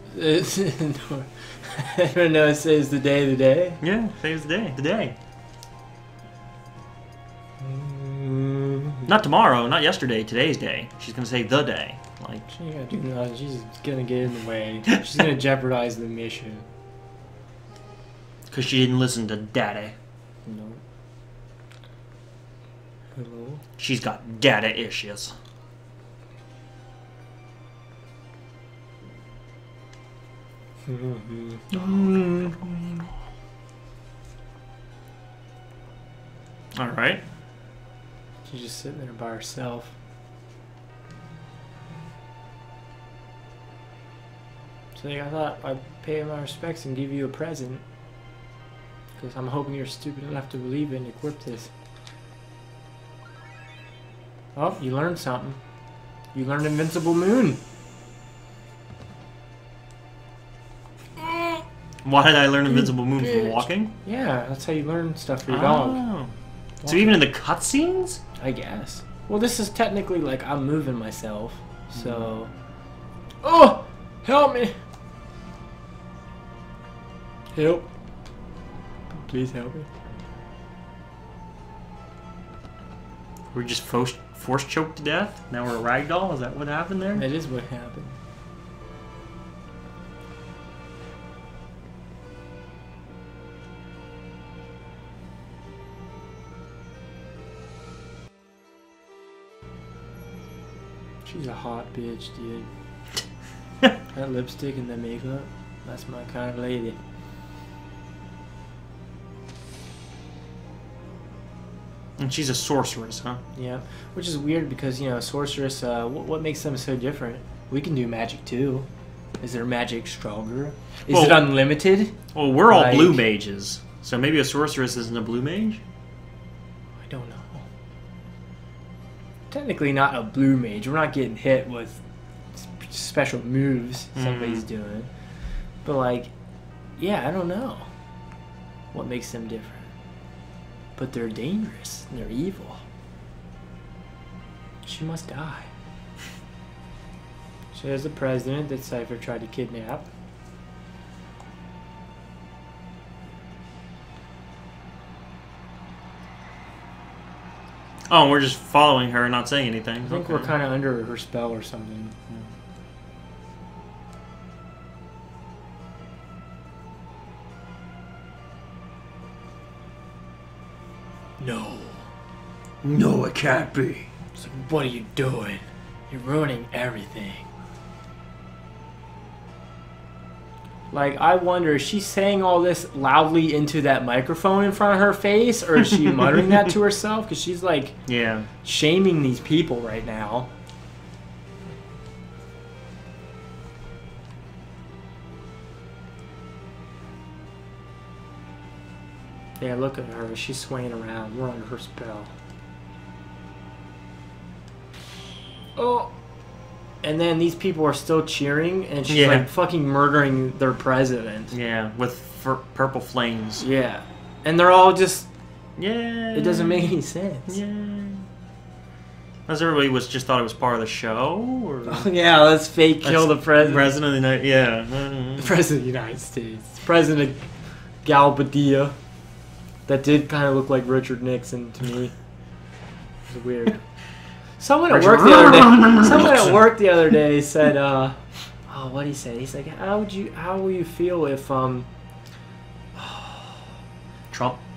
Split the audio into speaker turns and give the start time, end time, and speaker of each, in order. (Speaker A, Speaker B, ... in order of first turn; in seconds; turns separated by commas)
Speaker A: 0.1-3.8, Speaker B: 3.8-5.1, Speaker A: 7.6-9.2, Speaker B: 9.1-12.5, Speaker A: 12.5-16.7, Speaker B: 18.5-19.9, Speaker A: 20.4-20.8, Speaker A: 23.1-23.6, Speaker B: 23.8-25.3, Speaker A: 30.9-32.5, Speaker B: 31.7-33.0, Speaker B: 36.8-37.2, Speaker A: 38.4-39.9, Speaker A: 44.9-47.8, Speaker A: 49.2-51.7, Speaker A: 54.5-55.6, Speaker A: 56.3-57.6, Speaker B: 62.0-63.9, Speaker A: 62.7-66.0, Speaker B: 65.5-66.3, Speaker A: 66.8-67.2, Speaker B: 66.8-68.2, Speaker A: 68.4-72.5, Speaker B: 72.0-72.2, Speaker A: 73.4-74.7, Speaker A: 77.5-77.9, Speaker A: 79.1-79.9, Speaker B: 83.5-87.2, Speaker A: 87.1-88.2, Speaker A: 101.2-102.7, Speaker A: 104.1-107.0, Speaker B: 112.2-113.4, Speaker A: 113.5-118.9, Speaker A: 119.4-122.2, Speaker B: 121.1-121.5, Speaker B: 122.3-125.8, Speaker A: 122.7-123.2, Speaker A: 127.0-127.7, Speaker A: 129.5-132.0, Speaker A: 132.6-135.1, Speaker B: 134.2-134.6, Speaker A: 135.8-136.3, Speaker A: 137.0-137.9, Speaker A: 138.9-139.9, Speaker A: 140.9-142.8, Speaker A: 144.8-145.7, Speaker A: 147.7-150.1, Speaker B: 158.1-160.5, Speaker A: 160.0-162.2, Speaker A: 171.4-172.1, Speaker B: 172.8-174.1, Speaker A: 174.3-177.5, Speaker A: 180.9-188.0, Speaker B: 188.1-188.5, Speaker A: 188.6-190.5, Speaker A: 199.6-202.3, Speaker A: 205.8-206.1, Speaker A: 207.0-211.5, Speaker B: 209.1-209.4, Speaker B: 211.5-213.6, Speaker A: 213.6-215.3, Speaker B: 215.8-217.0, Speaker A: 216.3-217.6, Speaker B: 217.5-218.2, Speaker B: 219.5-222.1, Speaker A: 221.9-223.9, Speaker B: 223.0-225.5, Speaker A: 225.4-227.4, Speaker A: 228.0-228.9, Speaker A: 229.9-232.1, Speaker A: 233.3-233.8, Speaker A: 234.6-241.9, Speaker B: 234.9-236.6, Speaker B: 243.0-243.2, Speaker B: 244.3-244.6